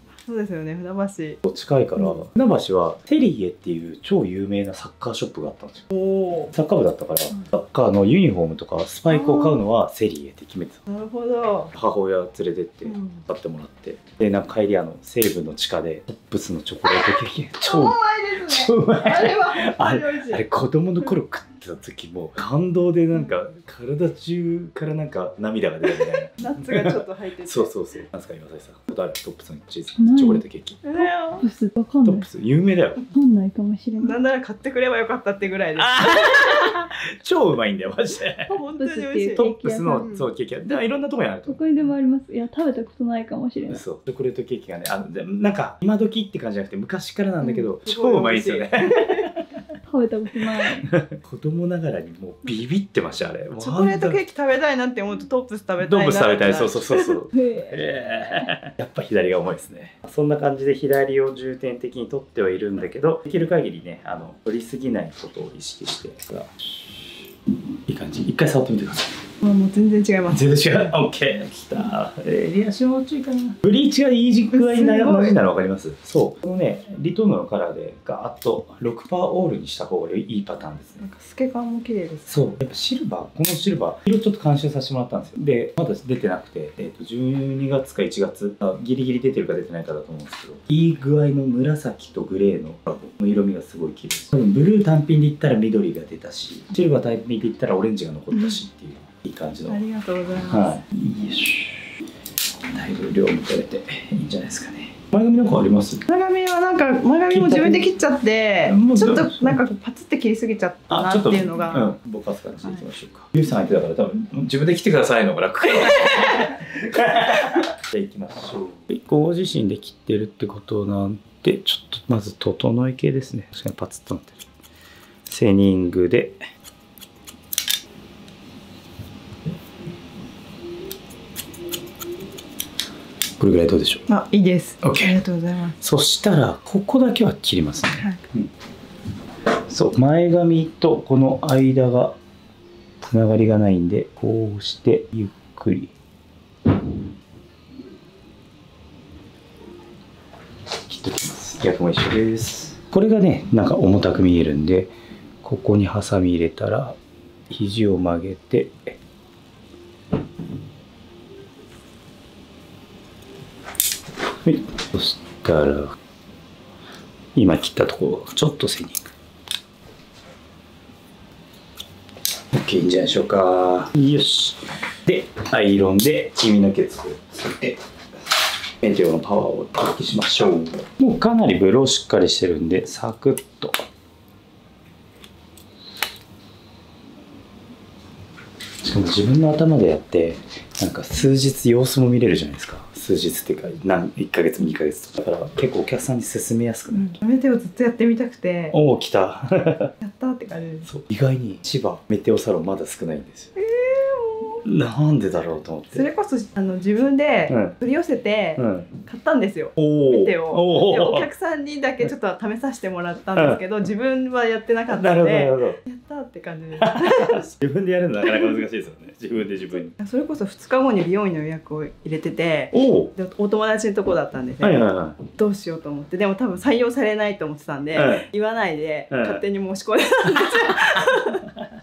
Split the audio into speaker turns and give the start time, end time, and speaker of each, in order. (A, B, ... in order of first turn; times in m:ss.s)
0:00.2-0:01.4 A
0:01.4-0:05.9 B
0:05.9-0:06.5 A
0:06.5-0:10.8 B
0:09.1-0:09.6 A
0:10.9-0:11.7 A
0:11.7-0:30.8 B
0:12.8-0:13.2 A
0:17.6-0:20.4 A
0:26.0-0:27.7 A
0:30.0-0:30.4 C
0:30.8-0:31.4 A
0:31.0-0:32.2 C
0:32.0-0:33.0 B
0:33.1-0:34.2 C
0:34.0-0:36.8 A
0:35.8-0:38.5 B
0:38.5-0:40.1 C
0:38.5-0:40.2 A
0:39.3-0:41.9 B
0:41.5-0:43.8 C
0:43.7-0:49.4 B
0:47.4-0:49.3 A
0:49.9-0:50.9 C
0:50.8-0:54.2 B
0:53.6-0:57.1 A
0:55.8-1:07.2 B
0:57.3-0:58.5 C
1:07.8-1:09.2 B
1:09.4-1:10.7 A
1:10.3-1:21.0 B
1:14.5-1:15.4 A
1:21.0-1:22.4 A
1:22.3-1:39.8 B
1:39.7-1:40.8 A
1:40.5-1:41.9 B
1:42.7-1:46.0 B
1:46.1-1:51.9 A
1:47.3-1:47.9 B
1:48.6-1:49.6 B
1:50.9-2:04.4 B
2:05.3-2:06.4 B
2:13.4-2:14.1 B
2:14.1-2:15.8 A
2:14.8-2:15.1 B
2:15.8-2:18.5 B
2:19.7-2:22.2 B
2:23.0-2:25.9 B
2:30.8-2:37.0 B
2:37.5-2:39.0 B
2:44.4-2:46.0 B
2:47.3-2:49.1 B
2:52.5-2:57.8 B
2:58.8-3:03.8 B
3:08.8-3:17.2 B
3:16.9-3:18.8 A
3:18.7-3:19.9 B
3:20.0-3:20.9 A
3:20.9-3:23.5 B
3:23.6-3:24.6 A
3:24.6-3:26.0 B
3:25.9-3:37.5 A
3:27.5-3:27.7 B
3:28.6-3:28.9 B
3:29.8-3:31.3 B
3:34.9-3:35.8 B
3:36.8-3:39.9 B
3:39.9-3:51.5 A
3:42.7-3:43.1 B
3:44.6-3:45.2 B
3:47.9-3:48.2 B
3:49.1-3:49.4 B